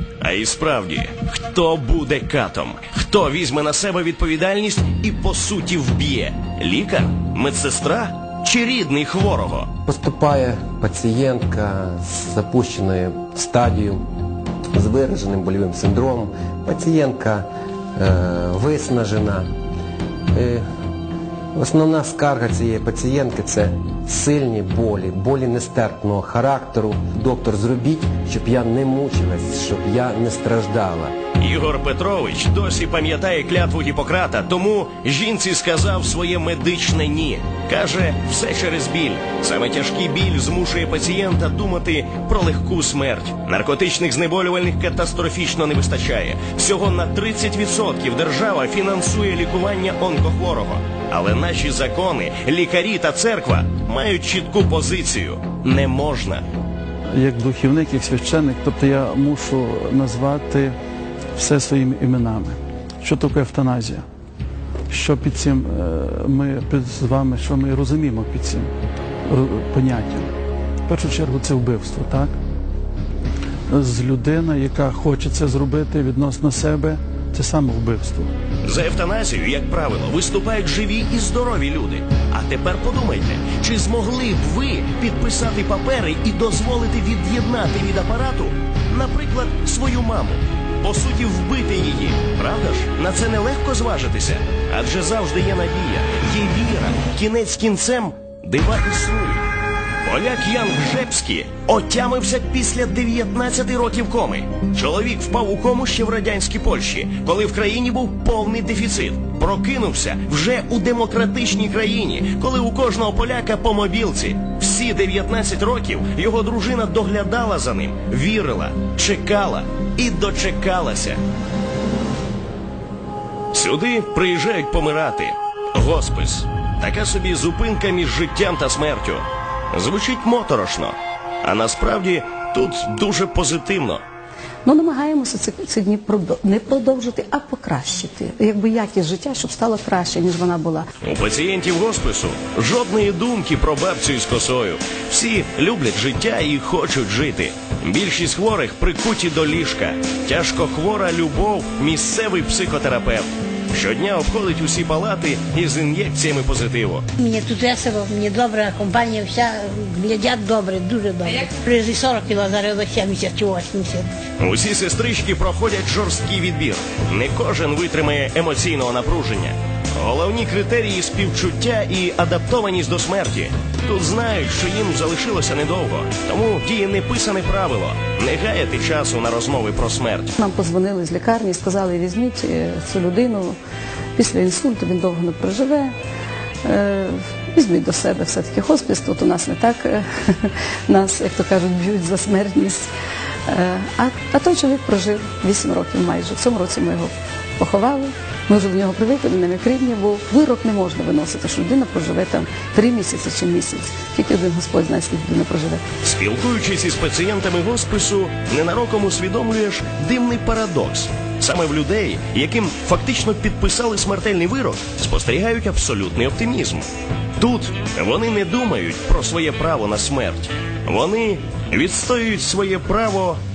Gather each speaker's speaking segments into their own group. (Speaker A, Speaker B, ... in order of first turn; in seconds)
Speaker A: 0.2-9.7, 31.4-56.4, 78.6-99.4, 100.0-121.2, 123.5-134.0, 141.0-157.0, 164.4-180.3, 206.0-216.9, 217.4-223.4
Speaker B: 9.9-14.1, 14.7-19.4, 20.3-20.6, 21.6-31.1
Speaker C: 57.1-60.8, 61.4-64.0, 64.9-68.7, 69.3-70.3, 70.9-72.3, 73.7-78.3
Speaker D: 134.7-140.9, 180.4-183.6, 184.2-185.9, 186.6-192.8, 193.5-205.8
Speaker E: 157.2-164.1